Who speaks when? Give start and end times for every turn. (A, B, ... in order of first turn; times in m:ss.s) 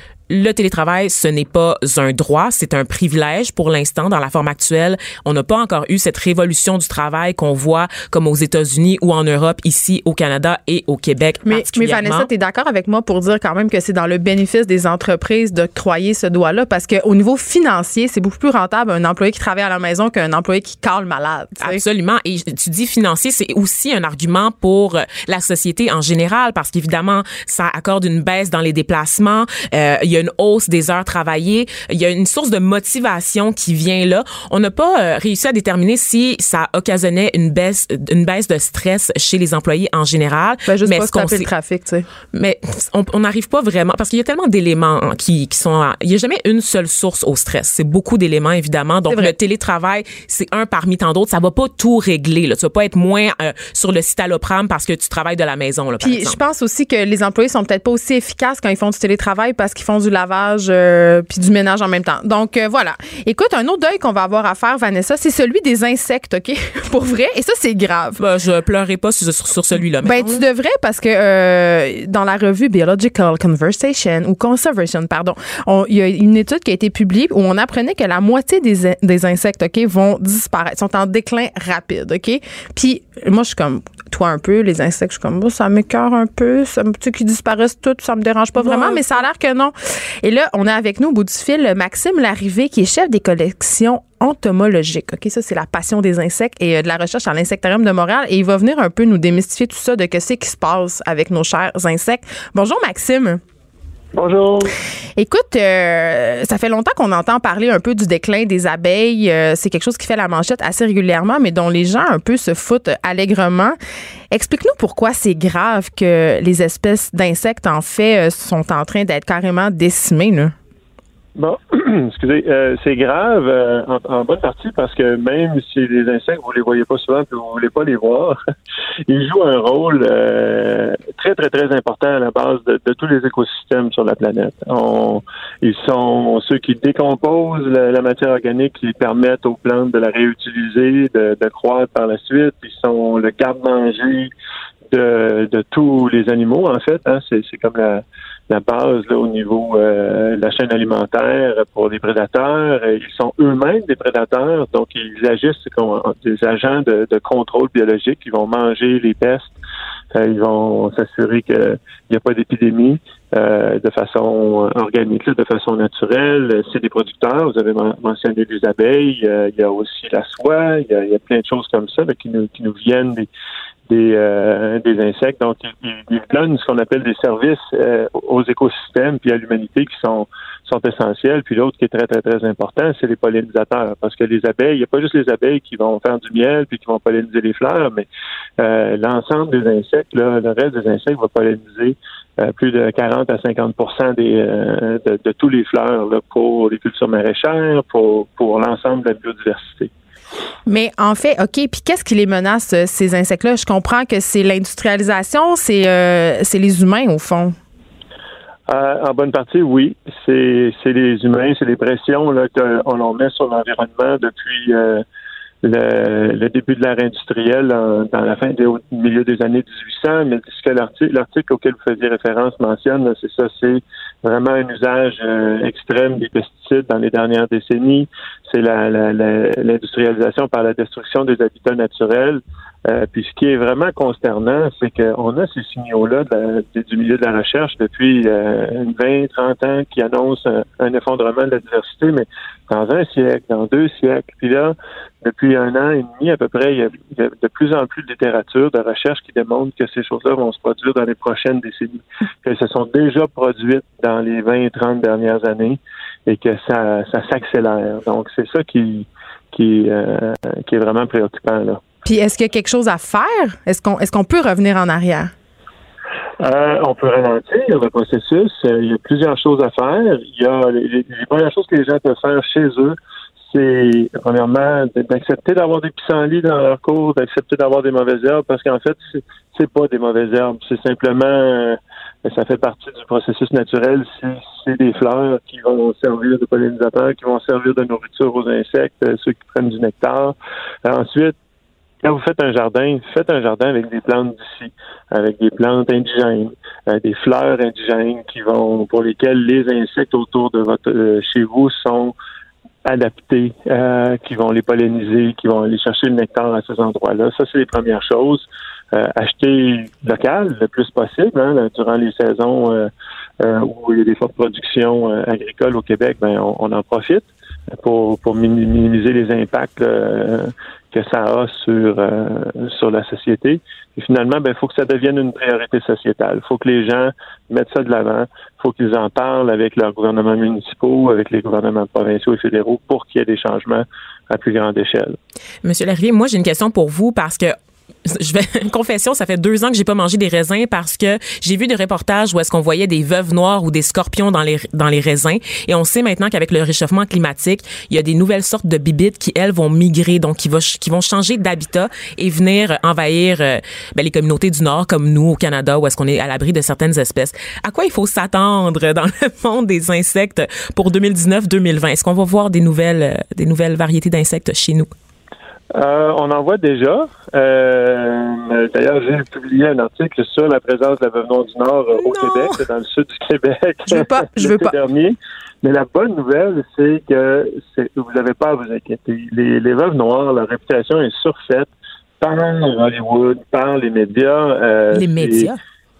0:00.3-0:12.3 A
0:11.5-0:21.8 B
0:21.6-0:41.5 A
0:40.7-0:42.1 B
0:42.3-0:56.4 A
0:56.0-1:08.2 B
1:08.2-1:10.4 A
1:10.0-1:43.4 B
1:28.6-1:29.2 A
1:44.2-1:44.7 C
1:45.2-1:53.8 B
1:54.3-2:00.5 B
2:01.4-2:08.4 C
2:09.1-2:24.3 C
2:24.9-2:39.5 C
2:40.1-2:53.3 C
2:53.9-3:08.1 C
3:08.6-3:19.9 C
3:20.7-3:27.6 B
3:28.7-3:35.0 C
3:35.6-4:21.8 C
4:22.0-4:25.3 B
4:26.4-4:33.0 C
4:33.5-4:51.4 C
4:52.0-5:02.1 C
5:02.9-5:12.9 C
5:13.4-5:17.3 C
5:17.8-5:35.2 C
5:35.6-6:04.9 A
6:05.8-6:21.7 C
6:12.0-6:12.4 A
6:13.9-6:14.8 B
6:22.2-6:25.5 C
6:24.9-6:25.6 A